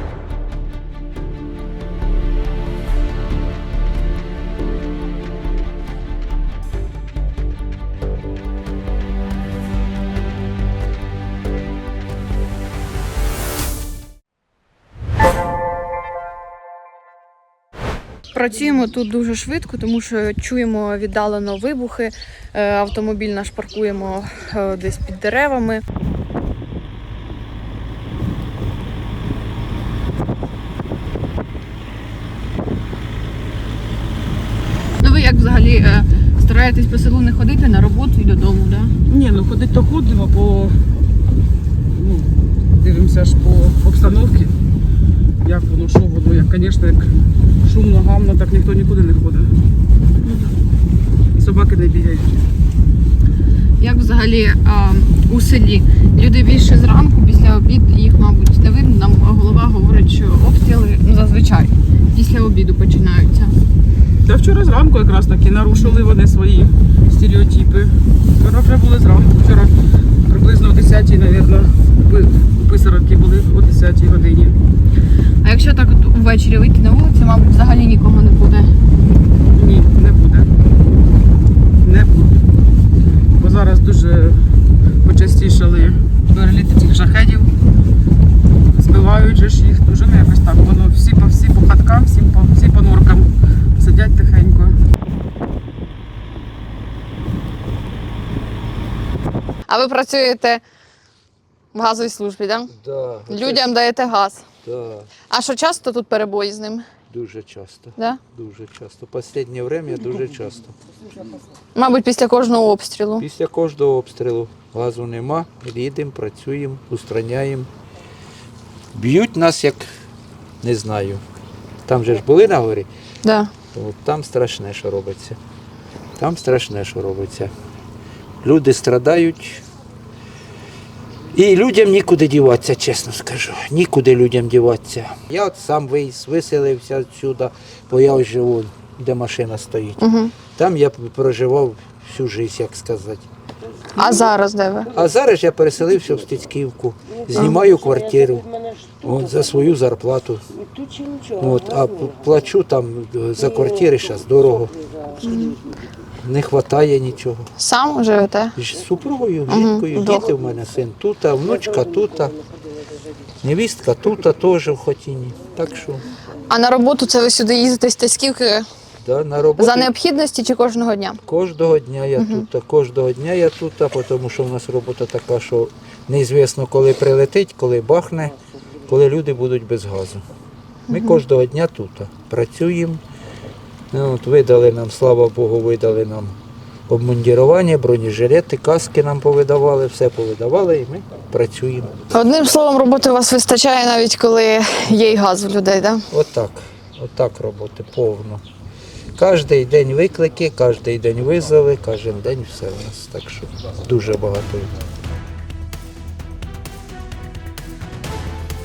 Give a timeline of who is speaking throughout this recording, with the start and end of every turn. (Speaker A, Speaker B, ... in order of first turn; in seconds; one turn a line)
Speaker A: 18.3-25.8
Speaker A: 35.0-38.9
Speaker B: 39.0-40.8
Speaker B: 41.9-44.5
Speaker B: 45.4-49.5
Speaker A: 50.2-50.5
Speaker B: 51.3-52.4
Speaker A: 53.8-63.6
Speaker B: 64.2-69.7
Speaker B: 70.2-74.6
Speaker A: 75.4-78.7
Speaker B: 79.5-80.5
Speaker B: 81.8-82.3
Speaker B: 83.4-84.4
Speaker B: 85.0-87.5
Speaker B: 88.7-94.8
Speaker A: 99.7-100.6
Speaker A: 101.7-102.7
Speaker C: 102.7-103.7
Speaker A: 103.3-104.5
Speaker C: 104.6-105.1
Speaker A: 105.3-106.8
Speaker C: 107.1-110.8
Speaker A: 111.7-113.2
Speaker C: 113.2-117.7
Speaker C: 118.9-119.9
Speaker C: 120.6-121.2
Speaker C: 121.8-122.9
Speaker A: 123.2-123.5
Speaker C: 123.7-125.4
Speaker C: 126.2-127.5
Speaker C: 128.4-129.6
Speaker C: 131.3-143.3
Speaker A: 140.0-140.3
Speaker A: 143.9-144.9
Speaker C: 144.9-148.5
Speaker A: 147.3-147.6
Speaker C: 149.0-150.4
Speaker C: 151.4-154.8
Speaker A: 155.2-155.5
Speaker C: 156.2-157.5
Speaker A: 157.6-158.6
Speaker C: 158.6-162.4
Speaker A: 159.5-160.3
Speaker C: 163.4-166.1
Speaker A: 166.5-168.7
Speaker C: 169.0-169.9
Speaker A: 169.6-171.2
Speaker C: 171.2-178.3
Speaker A: 172.2-172.4
Speaker C: 178.9-180.2
Speaker A: 180.9-181.2
Speaker C: 180.9-183.0
Speaker C: 183.9-186.3
Speaker C: 186.9-192.0
Speaker A: 192.1-196.0
Speaker C: 196.1-198.4
Speaker C: 199.2-204.7